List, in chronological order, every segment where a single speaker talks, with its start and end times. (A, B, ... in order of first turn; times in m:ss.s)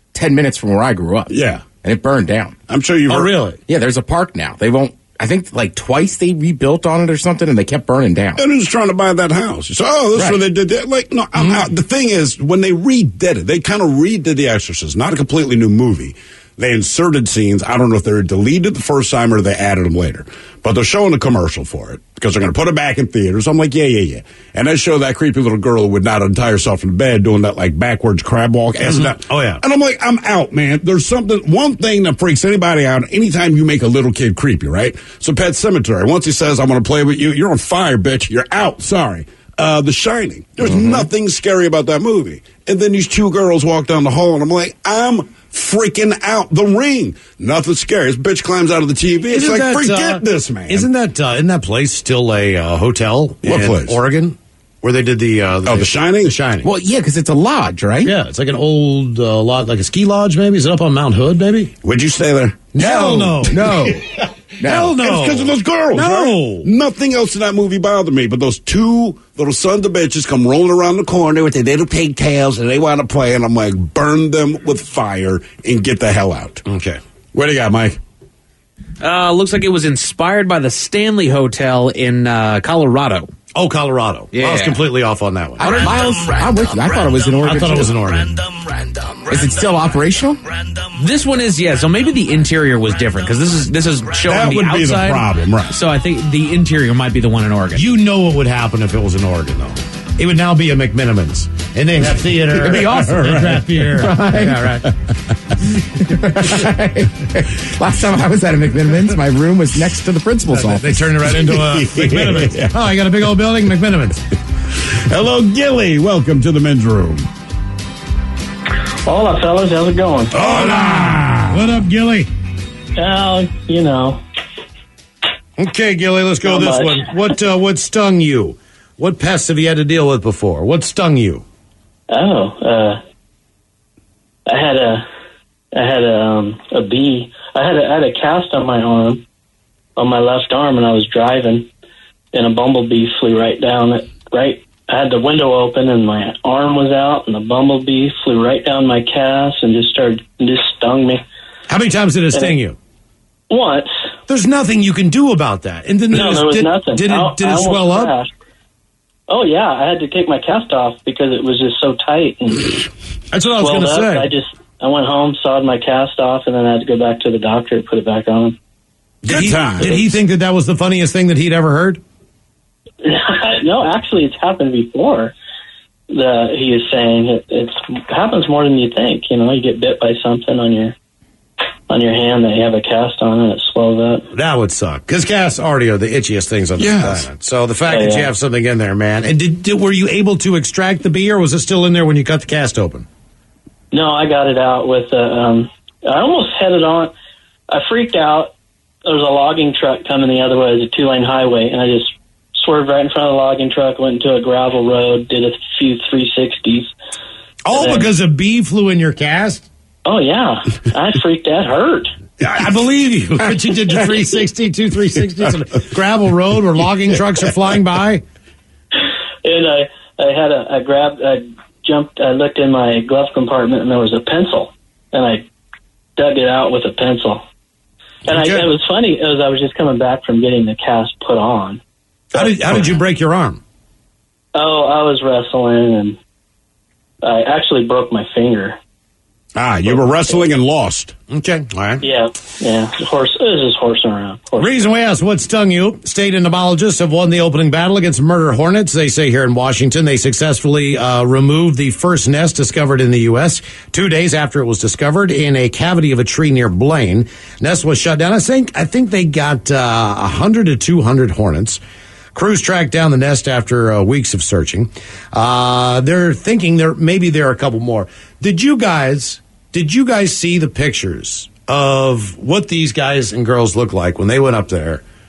0:00.1-0:02.6 A
0:01.3-0:01.6 B
0:02.7-0:03.3 B
0:03.1-0:03.6 C
0:03.7-0:08.4 A
0:08.4-0:50.9 B
0:28.8-0:29.6 C
0:49.3-0:56.7 C
0:53.4-0:54.0 B
0:55.6-0:56.4 B
0:56.6-0:58.1 A
0:58.0-1:01.7 C
1:01.8-1:03.5 B
1:02.7-1:03.9 C
1:03.5-1:04.0 A
1:04.6-1:04.9 A
1:04.6-1:06.7 C
1:04.9-1:16.6 B
1:16.6-1:17.0 C
1:17.3-1:18.0 B
1:19.0-1:23.3 D
1:23.5-1:25.7 C
1:24.3-1:24.8 A
1:25.6-1:28.0 A
1:27.4-1:28.4 C
1:29.3-1:30.4 A
1:30.9-1:37.8 D
1:34.2-1:35.8 B
1:37.8-1:44.9 C
1:42.6-1:44.8 A
1:42.7-1:43.6 B
1:46.0-1:51.1 A
1:50.5-1:54.2 C
1:51.4-1:52.8 B
1:54.9-1:57.2 B
1:59.0-2:00.4 E
2:00.3-2:01.8 B
2:00.3-2:02.3 C
2:03.0-2:04.2 E
2:05.6-2:11.4 C
2:06.4-2:07.1 E
2:12.1-2:13.0 E
2:14.5-2:15.0 E
2:15.7-2:19.2 E
2:20.0-2:21.7 E
2:22.3-2:31.2 E
2:31.7-2:32.8 C
2:33.5-2:33.9 E
2:34.3-2:38.1 C
2:36.1-2:38.3 E
2:39.3-2:42.9 E
2:43.3-2:44.3 C
2:43.6-2:48.6 E
2:49.2-2:52.0 C
2:49.2-2:50.0 B
2:53.0-2:55.4 E
2:56.1-3:01.0 E
3:01.9-3:04.3 E
3:04.3-3:13.1 C
3:06.8-3:07.3 B
3:07.9-3:08.3 E
3:13.9-3:17.1 E
3:17.7-3:18.5 E
3:19.0-3:26.9 E
3:27.6-3:29.7 C
3:27.7-3:28.1 E
3:30.0-3:32.1 E
3:32.4-3:38.2 C
3:39.4-3:45.5 E
3:46.2-3:47.4 E
3:48.2-3:51.8 E
3:48.3-3:48.7 C
3:52.3-3:52.8 E
3:52.3-3:53.6 C
3:54.5-3:56.2 E
3:57.2-3:58.8 E
3:59.5-4:01.2 B
4:01.3-4:02.0 C
4:02.0-4:04.8 E
4:04.6-4:21.8 C
4:22.3-4:35.0 C